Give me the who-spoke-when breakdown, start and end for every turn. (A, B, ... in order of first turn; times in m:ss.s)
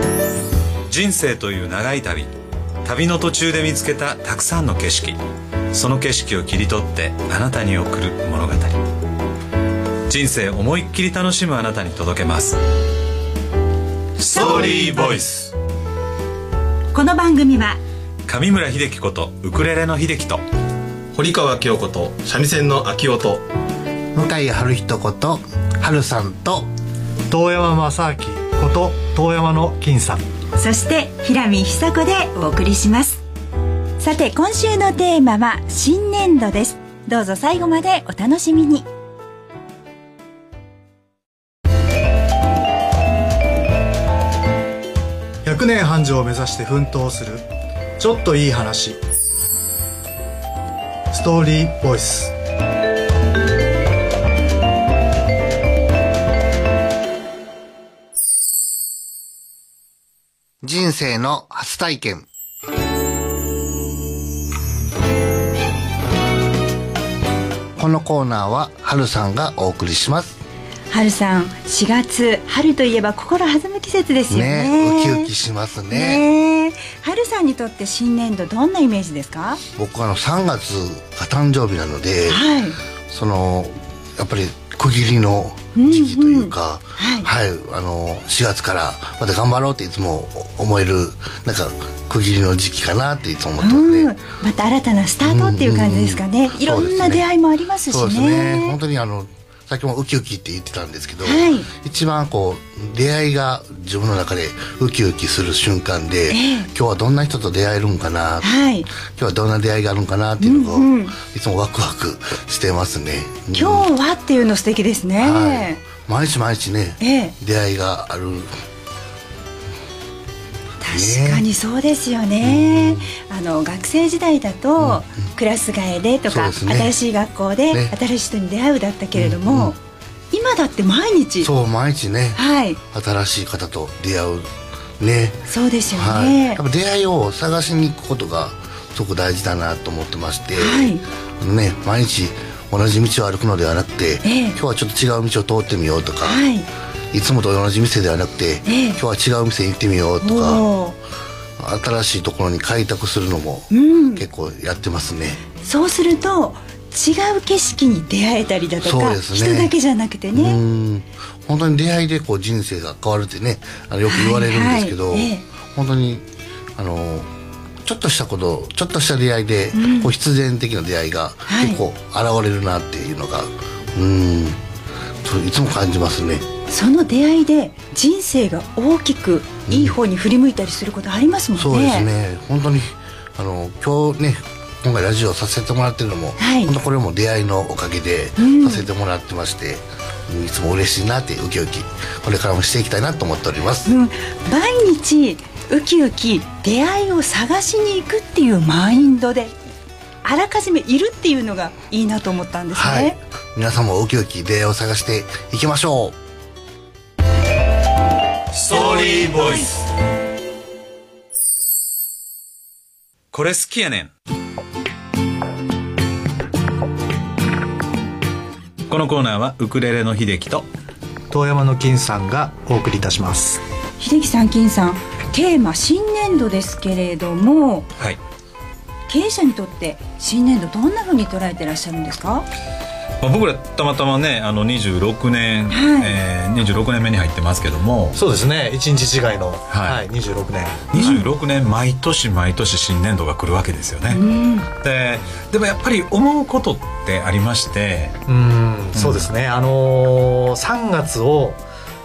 0:00.9-0:02.3 A
0:02.8-0:08.8 A
0:10.1-0:12.6 A
0:14.2-0:15.5 A
0:14.3-0:15.1 B
0:16.9-0:17.8 B
0:18.2-0:20.4 A
0:21.1-0:23.4 C
0:24.1-0:26.7 D
0:27.3-0:30.2 E
0:30.6-0:33.2 B
0:34.0-0:38.9 B
0:45.4-0:47.4 E
0:48.0-0:49.0 E
0:51.1-0:52.3 E
1:00.6-1:02.3 D
1:07.8-1:10.4 D
1:10.9-1:15.3 B
1:14.3-1:16.2 D
1:15.9-1:19.6 B
1:19.8-1:22.4 D
1:22.3-1:22.8 B
1:23.1-1:34.1 D
1:25.7-1:27.3 B
1:33.6-1:38.8 B
1:35.2-1:37.3 D
1:37.9-1:48.5 D
1:41.2-1:41.7 B
1:46.3-1:46.7 B
1:48.4-1:48.9 B
1:49.0-1:53.9 D
1:50.4-1:51.1 B
1:53.5-1:55.8 B
1:55.2-1:58.5 D
1:57.0-1:57.3 B
2:00.8-2:09.8 B
2:00.9-2:01.4 D
2:02.4-2:03.1 D
2:04.8-2:05.0 D
2:06.3-2:07.0 D
2:07.7-2:07.9 D
2:09.1-2:09.7 D
2:10.3-2:11.5 B
2:11.4-2:26.4 D
2:12.3-2:12.8 B
2:15.5-2:16.6 B
2:20.6-2:21.0 B
2:24.2-2:24.6 B
2:26.2-2:26.7 B
2:27.1-2:30.6 D
2:28.6-2:29.0 B
2:30.2-2:31.0 B
2:31.6-2:35.4 D
2:33.7-2:34.2 B
2:35.6-2:40.6 B
2:38.8-2:39.7 D
2:40.3-2:46.2 D
2:44.0-2:45.4 B
2:46.8-2:47.3 D
2:47.8-2:54.6 D
2:49.7-2:50.1 B
2:51.5-2:51.8 B
2:55.2-2:56.4 D
2:56.7-3:02.1 B
2:59.7-3:00.0 D
3:01.6-3:13.9 D
3:06.4-3:06.7 B
3:08.4-3:08.8 B
3:13.8-3:19.5 B
3:20.2-3:23.2 B
3:22.7-3:26.2 D
3:28.5-3:29.8 A
3:33.3-3:34.1 A
3:38.9-3:40.6 A
3:41.3-3:43.6 E
3:44.0-3:47.9 B
3:49.1-3:52.4 B
3:53.2-3:58.2 A
3:55.7-3:56.2 B
3:58.1-4:01.2 E
3:59.7-4:00.0 A
4:00.9-4:04.2 A
4:04.1-4:04.7 B
4:04.8-4:08.2 A
4:08.3-4:11.6 E
4:08.9-4:09.3 A